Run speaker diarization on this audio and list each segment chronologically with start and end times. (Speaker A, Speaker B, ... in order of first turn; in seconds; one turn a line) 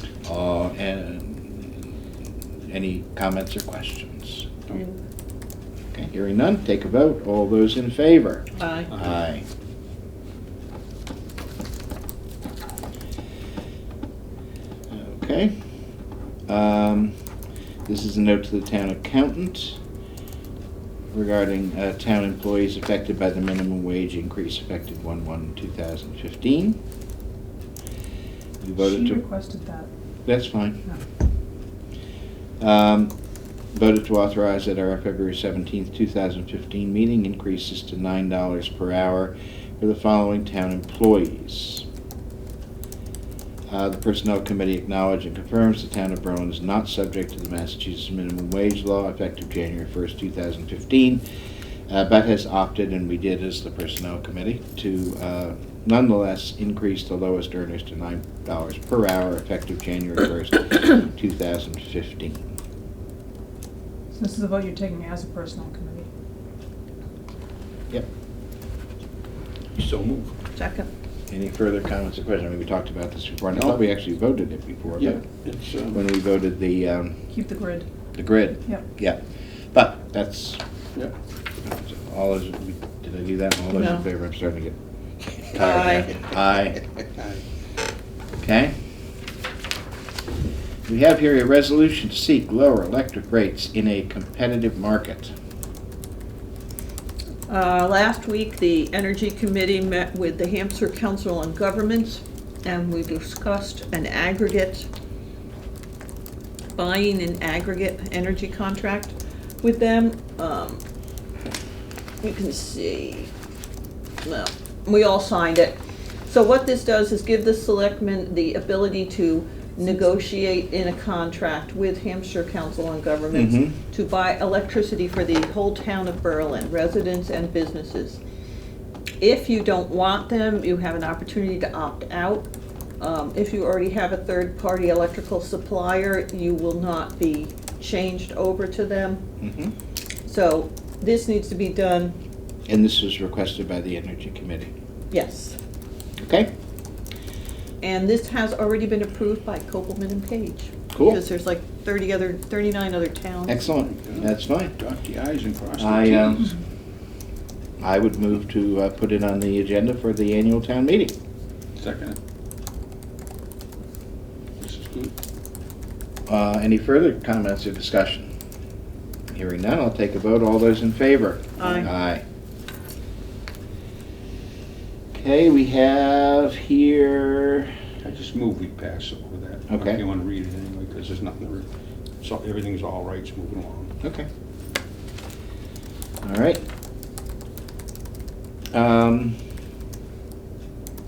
Speaker A: 0.2-2.0
Speaker A: 2.7-4.5
Speaker B: 4.7-5.0
Speaker A: 5.9-9.4
Speaker B: 8.6-8.9
Speaker A: 14.9-15.6
Speaker A: 16.5-17.1
Speaker A: 17.9-19.8
Speaker A: 21.1-26.8
Speaker A: 28.6-29.2
Speaker C: 28.8-29.9
Speaker A: 30.2-30.8
Speaker A: 32.6-33.1
Speaker A: 33.7-41.9
Speaker A: 43.7-51.2
Speaker A: 51.9-62.5
Speaker C: 64.1-66.1
Speaker D: 69.7-70.3
Speaker B: 70.5-70.9
Speaker A: 71.3-75.2
Speaker D: 73.5-73.8
Speaker D: 75.0-76.0
Speaker A: 75.9-77.2
Speaker C: 77.3-77.9
Speaker A: 78.1-79.2
Speaker A: 79.7-80.6
Speaker A: 81.6-84.8
Speaker B: 83.7-84.0
Speaker A: 85.5-86.8
Speaker B: 85.5-86.1
Speaker D: 87.2-87.4
Speaker A: 88.4-88.8
Speaker A: 90.8-95.3
Speaker B: 97.5-104.8
Speaker B: 106.7-110.8
Speaker B: 112.2-113.3
Speaker B: 114.2-128.2
Speaker A: 123.3-123.8
Speaker B: 129.2-132.5
Speaker B: 133.0-139.2
Speaker A: 139.4-139.7
Speaker B: 140.3-142.1
Speaker A: 142.7-144.7
Speaker B: 145.1-145.6
Speaker A: 146.2-146.5
Speaker B: 147.8-153.6
Speaker A: 150.9-151.2
Speaker A: 153.5-154.8
Speaker D: 153.6-156.5
Speaker A: 155.8-156.6
Speaker A: 157.8-161.1
Speaker D: 161.8-162.2
Speaker D: 164.6-165.1
Speaker A: 166.3-168.3
Speaker A: 169.3-172.2
Speaker B: 171.6-171.9
Speaker A: 175.1-177.7
Speaker D: 178.0-181.7
Speaker A: 179.7-180.0
Speaker D: 182.2-183.9
Speaker A: 184.0-184.3
Speaker A: 186.2-186.6
Speaker A: 188.7-189.4